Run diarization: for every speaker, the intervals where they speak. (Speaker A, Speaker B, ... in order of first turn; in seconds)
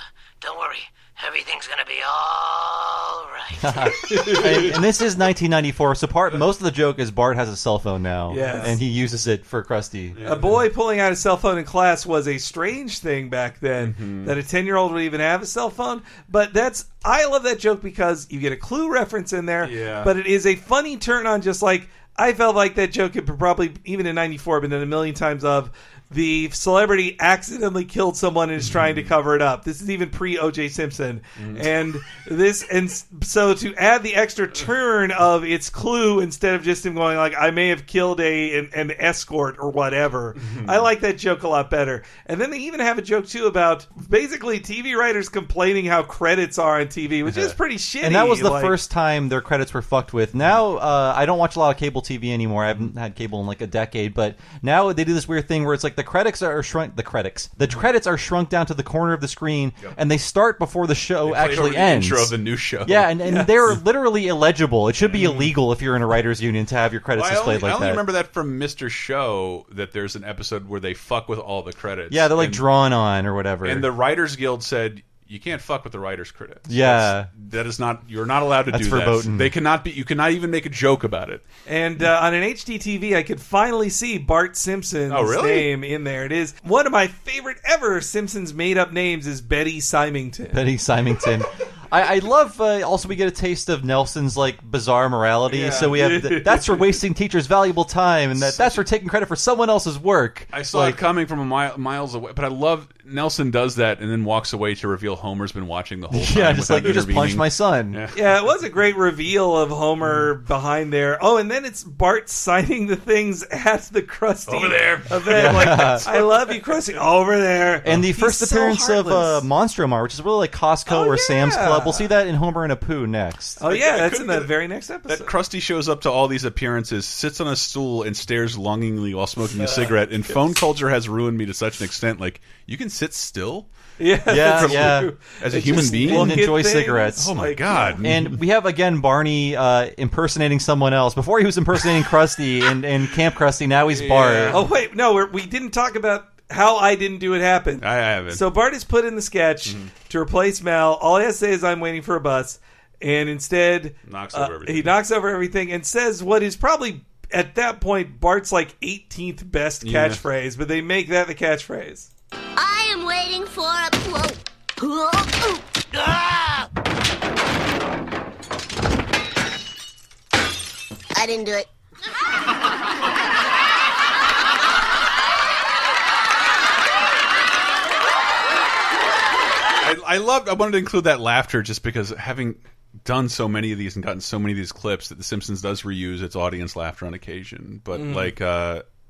Speaker A: 0.4-3.8, 165.9-166.7
Speaker B: 3.6-10.2, 48.0-68.0, 72.1-73.9, 76.7-77.3, 78.7-79.5, 90.5-101.0, 106.1-108.0, 115.3-116.1, 117.8-123.6, 134.3-135.1, 135.7-137.4, 138.0-144.6
Speaker C: 4.0-4.7, 8.3-8.7, 10.2-48.8, 63.2-63.8, 81.7-90.6, 95.6-96.9, 108.1-119.4, 120.9-122.1, 123.6-125.3, 134.0-138.0, 144.5-162.1, 187.9-188.3
Speaker D: 4.1-4.7, 10.1-10.6, 13.8-14.3, 19.6-20.1, 31.4-31.7, 40.4-40.9, 47.3-47.5, 61.2-63.1, 67.1-72.6, 73.6-81.4, 85.1-85.7, 95.6-95.9, 98.4-98.8, 100.5-108.2, 114.5-116.8, 123.7-124.5, 125.1-133.7, 134.4-136.7, 137.2-138.4, 143.9-144.7, 147.8-148.4, 149.7-149.9, 154.1-155.0, 159.8-160.2, 179.8-188.8
Speaker E: 162.6-165.6, 171.1-171.7